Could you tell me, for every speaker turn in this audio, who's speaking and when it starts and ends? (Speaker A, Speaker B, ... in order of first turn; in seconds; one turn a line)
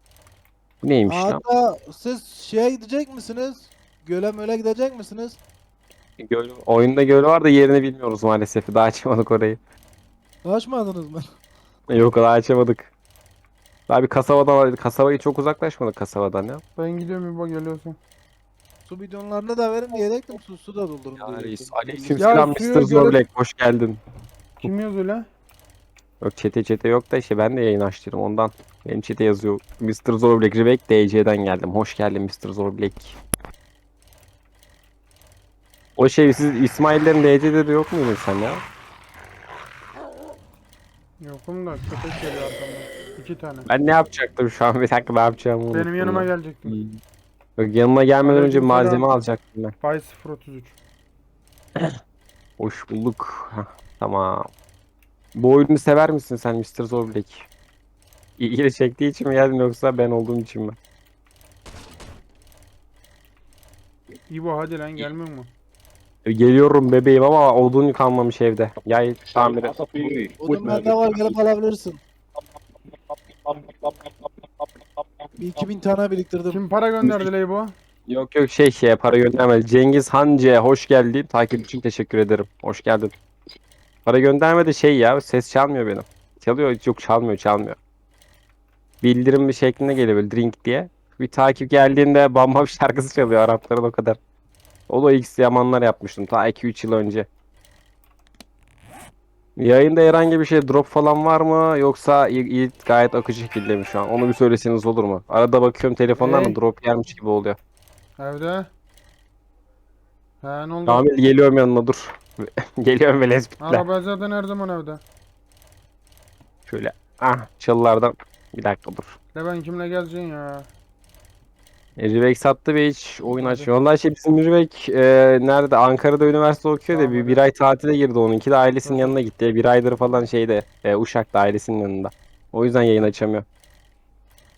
Speaker A: 0.8-1.4
Speaker B: 1.1-5.4
Speaker A: 6.2-9.6
Speaker B: 10.4-11.3
Speaker A: 11.9-12.9
Speaker A: 13.9-16.6
Speaker C: 16.8-18.0
Speaker B: 18.9-22.6
Speaker A: 21.2-24.0
Speaker C: 22.2-23.2
Speaker C: 24.6-25.3
Speaker A: 26.2-33.2
Speaker A: 36.0-38.6
Speaker C: 41.2-43.7
Speaker A: 43.7-47.0
Speaker C: 45.7-46.8
Speaker A: 47.6-49.7
Speaker C: 48.2-49.1
Speaker C: 49.8-50.8
Speaker A: 52.6-54.5
Speaker A: 55.3-57.5
Speaker A: 58.4-60.8
Speaker C: 64.3-65.5
Speaker A: 66.2-71.3
Speaker B: 70.4-72.0
Speaker A: 73.4-74.3
Speaker B: 75.3-76.6
Speaker C: 76.5-77.7
Speaker A: 77.0-77.3
Speaker A: 78.1-83.1
Speaker A: 84.0-87.8
Speaker A: 89.0-94.2
Speaker A: 94.9-97.3
Speaker A: 99.6-107.6
Speaker C: 106.2-106.6
Speaker C: 108.2-108.7
Speaker C: 110.4-111.0
Speaker A: 110.8-113.8
Speaker C: 113.6-115.0
Speaker A: 116.7-119.2
Speaker C: 119.3-120.7
Speaker A: 122.0-133.4
Speaker C: 123.3-123.7
Speaker C: 126.9-127.4
Speaker C: 128.8-129.2